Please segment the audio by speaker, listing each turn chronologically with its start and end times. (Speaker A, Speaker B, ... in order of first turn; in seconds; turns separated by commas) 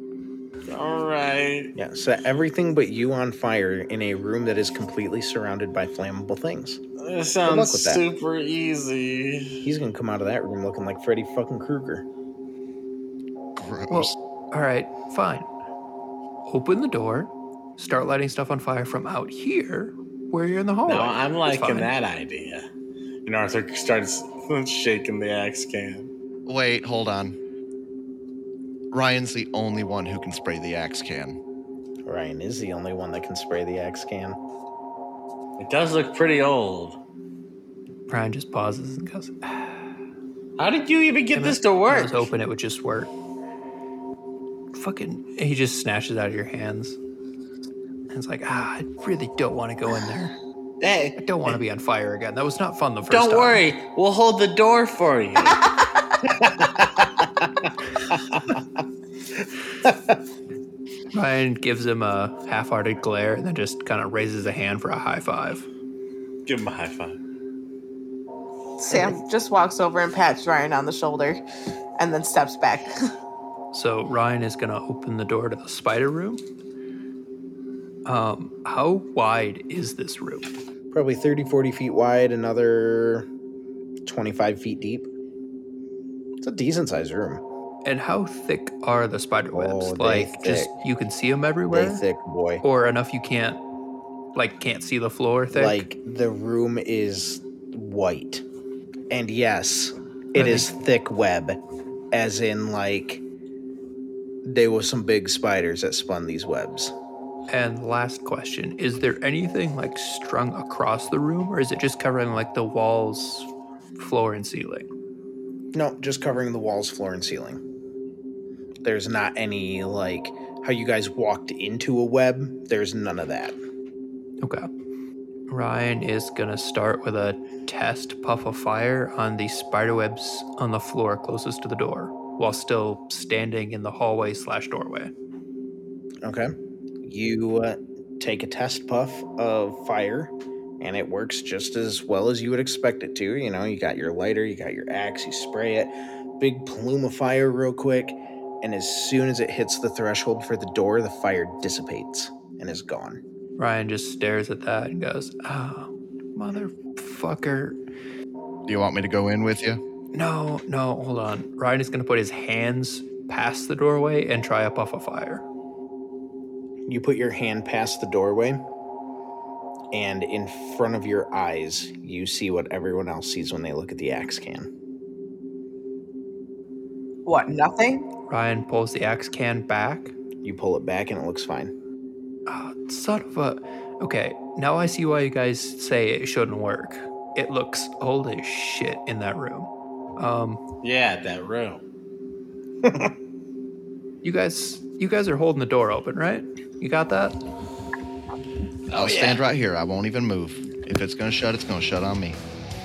Speaker A: 0.7-1.7, Speaker B: 1.8-6.8, Speaker A: 7.0-9.6, Speaker B: 7.4-8.0, Speaker B: 9.6-12.1, Speaker C: 13.6-14.2, Speaker D: 13.9-15.5, Speaker D: 16.5-21.9, Speaker A: 20.9-22.6, Speaker A: 23.3-26.1, Speaker C: 26.5-27.4, Speaker C: 28.9-31.4, Speaker B: 32.1-34.4, Speaker A: 35.6-37.0, Speaker D: 38.1-39.8, Speaker A: 40.6-42.3, Speaker D: 41.3-43.1, Speaker D: 44.7-47.0, Speaker D: 48.1-50.4, Speaker A: 50.8-51.5, Speaker D: 51.2-53.6, Speaker A: 53.1-55.6, Speaker D: 61.1-65.7, Speaker A: 66.5-67.2, Speaker E: 68.8-71.4, Speaker E: 72.0-73.0, Speaker D: 73.7-76.4, Speaker D: 78.1-80.5, Speaker B: 80.9-83.3, Speaker B: 84.0-85.1, Speaker B: 86.4-87.4, Speaker D: 87.8-92.0, Speaker B: 89.5-90.7, Speaker B: 91.7-92.6, Speaker D: 92.6-93.6, Speaker D: 94.3-95.8, Speaker B: 95.5-98.5, Speaker B: 99.1-101.6, Speaker D: 100.3-100.7, Speaker B: 102.1-103.2, Speaker B: 104.5-106.9, Speaker D: 107.5-114.9, Speaker B: 115.7-117.6, Speaker B: 118.8-123.6, Speaker D: 124.4-124.7, Speaker D: 125.5-135.1, Speaker B: 136.2-153.2, Speaker D: 153.6-157.8, Speaker C: 158.7-159.8, Speaker D: 160.1-165.4, Speaker B: 166.9-168.6, Speaker B: 169.9-174.7, Speaker E: 177.3-178.1, Speaker D: 178.3-180.2, Speaker B: 180.4-181.7, Speaker D: 182.5-190.6, Speaker A: 190.8-191.8, Speaker B: 192.8-193.1, Speaker D: 194.2-197.4, Speaker A: 198.9-199.4, Speaker C: 198.9-202.4